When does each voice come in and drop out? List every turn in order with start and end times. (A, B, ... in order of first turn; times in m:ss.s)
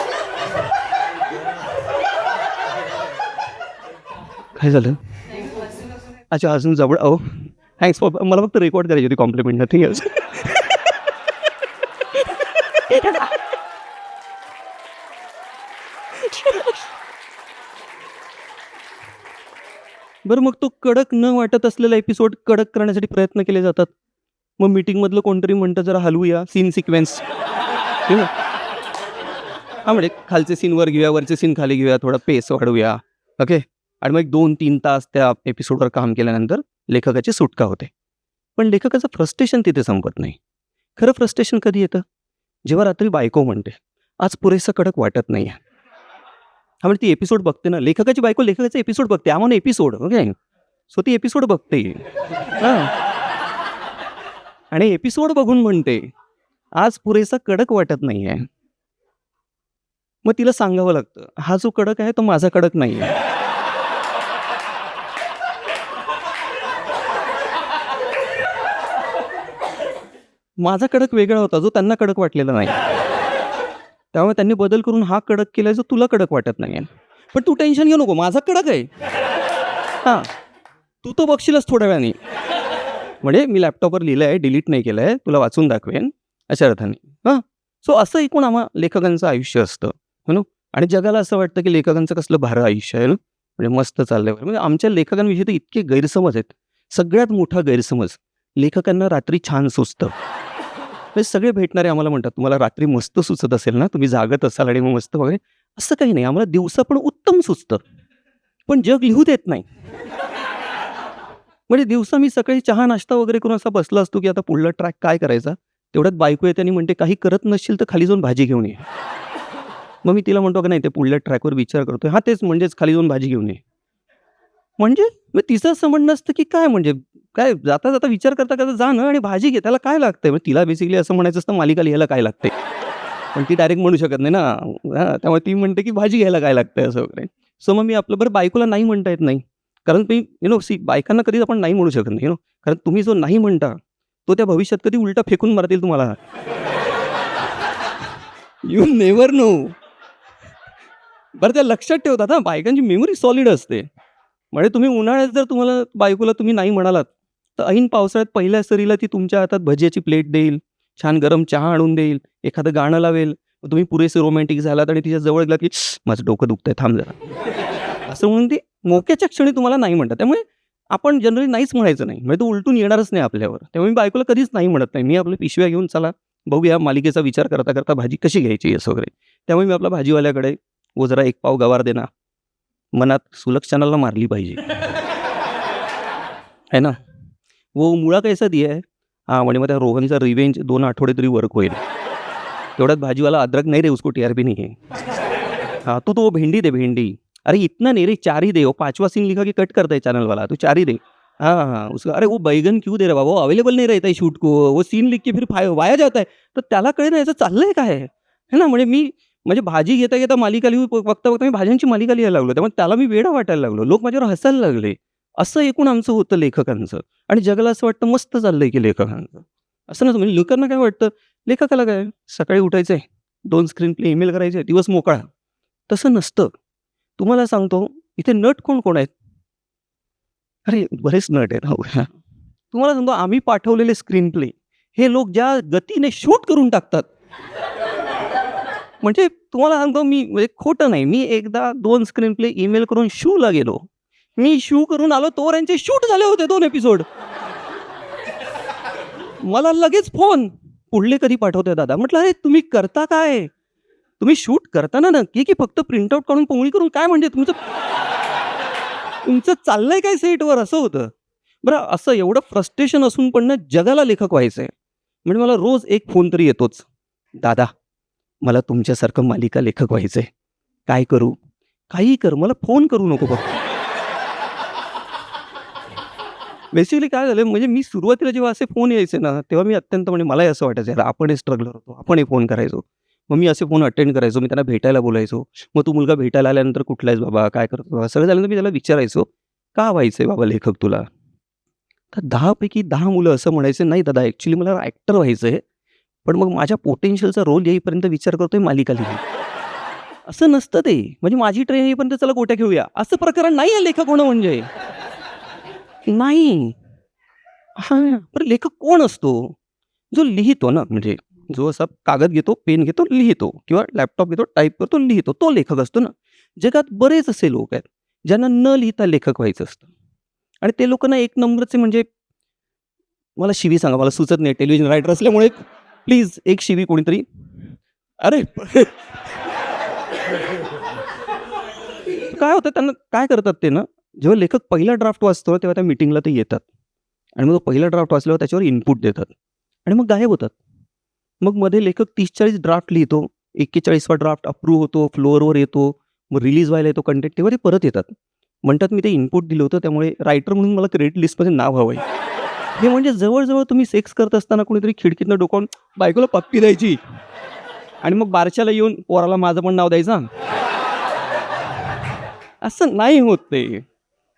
0:04.5-0:05.0 A
0:06.3-0:10.8 A
0:12.9-0:13.3 A
0:16.2-0:16.7 A
0:20.2-0:23.9 A
0:24.6-0:27.2 A
0:29.8-0:37.9 A
0:38.6-0:40.4 A
0:41.0-0:42.0 A
0:42.6-0:45.6 A
0:46.8-0:50.3 A
0:50.9-0:52.0 A
0:52.6-0:52.9 A
0:54.7-0:56.1 A
0:56.8-0:58.4 A
1:00.2-1:03.1 A
1:10.6-1:12.8 A
1:14.1-1:18.9 A
1:21.0-1:22.2 A
1:23.2-1:40.1 A
1:41.1-1:47.8 A
1:48.7-1:49.6 A
1:51.7-1:58.8 A
2:00.0-2:03.6 A
2:04.8-2:12.5 A
2:13.3-2:26.2 A
2:28.6-2:29.7 A
2:31.4-2:33.9 A
2:34.5-2:47.2 A
2:48.1-3:02.1 A
3:02.9-3:04.6 A
3:06.7-3:07.0 A
3:07.7-3:11.8 A
3:12.8-3:14.8 A
3:15.8-3:45.3 A
3:45.9-3:46.5 A
3:47.2-3:49.1 A
3:50.6-3:52.1 A
3:52.7-3:57.1 A
3:59.0-4:03.8 A
4:04.4-4:07.0 A
4:09.4-4:13.5 A
4:14.2-4:17.6 A
4:19.2-4:21.1 A
4:21.6-4:24.7 A
4:25.2-4:26.8 A
4:27.4-4:27.7 A
4:28.4-4:30.3 A
4:30.9-4:31.4 A
4:31.9-4:33.5 A
4:36.7-4:51.1 A
4:52.1-4:55.6 A
4:56.2-4:59.2 A
5:00.3-5:04.7 A
5:06.0-5:06.8 A
5:07.8-5:09.6 A
5:10.1-5:19.9 A
5:20.6-5:22.0 A
5:23.4-5:29.1 A
5:32.1-5:36.6 A
5:37.4-5:39.3 A
5:39.8-5:40.6 A
5:41.4-5:48.1 A
5:48.6-5:52.0 A
5:52.8-5:57.0 A
5:58.0-6:00.3 A
6:02.6-6:03.8 A